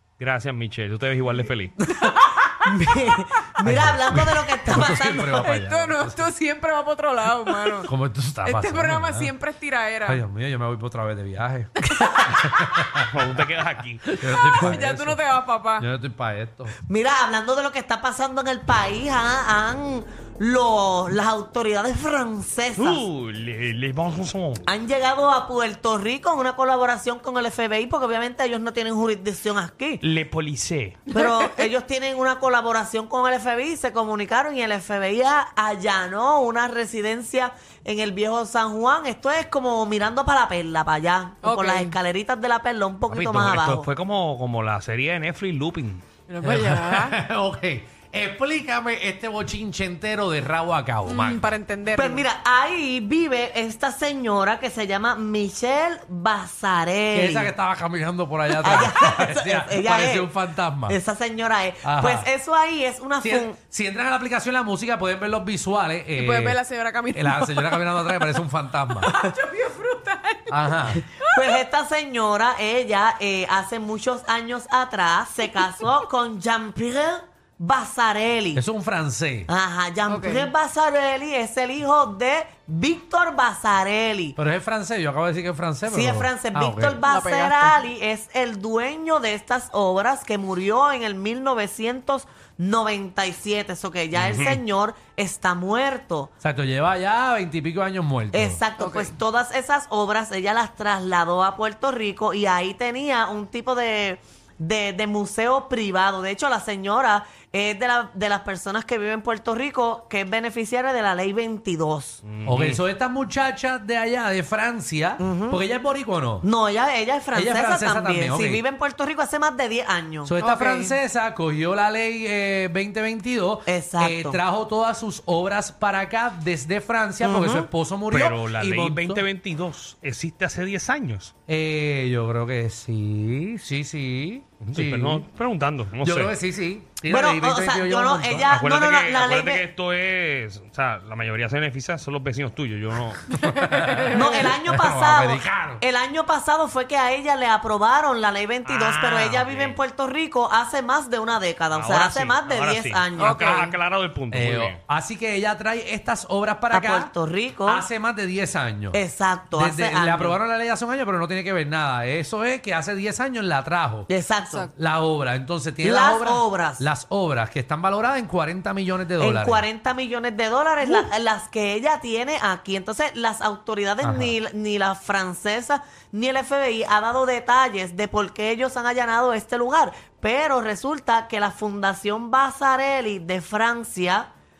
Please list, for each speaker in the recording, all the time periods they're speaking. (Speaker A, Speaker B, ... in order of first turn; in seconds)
Speaker A: 0.2-1.8, 13.1-14.7, 22.8-24.6, 30.0-31.0, 43.1-46.0, 94.1-94.6, 112.2-112.8, 128.1-131.3, 134.6-136.3, 138.5-143.4, 148.6-149.8, 151.7-154.8
Speaker B: 1.8-5.5, 12.0-12.4, 16.9-23.0, 24.6-30.0, 31.1-43.9, 51.9-57.5, 58.5-60.3, 60.9-63.5, 71.3-78.6, 79.5-84.4, 85.9-96.3, 98.3-112.2, 115.2-115.6, 116.4-120.4, 123.7-124.4, 127.2-127.7, 137.1-139.6, 144.1-153.7, 156.7-157.8, 158.9-160.4, 164.1-164.7, 165.8-166.8, 169.2-184.3
Speaker C: 1.9-3.2, 5.3-7.9, 8.4-10.2, 14.2-15.8, 41.4-42.0, 46.3-47.2, 51.1-52.2, 66.2-68.3, 69.0-71.6, 80.1-80.5, 87.0-87.8, 98.8-99.1, 120.4-121.0, 143.4-144.5, 153.2-153.8, 164.4-164.7
Speaker D: 3.6-6.3, 7.8-9.4, 10.1-13.3, 14.1-15.2, 15.8-16.7, 46.4-51.5, 57.1-61.0, 61.8-62.3, 63.2-66.6, 67.1-69.1, 70.5-71.0, 78.5-79.5, 84.4-87.0, 96.4-98.6, 112.4-116.5, 117.3-118.6, 120.2-129.2, 131.5-135.2, 136.0-138.6, 143.4-145.8, 154.3-157.1, 157.6-164.1, 164.7-169.6, 174.0-174.3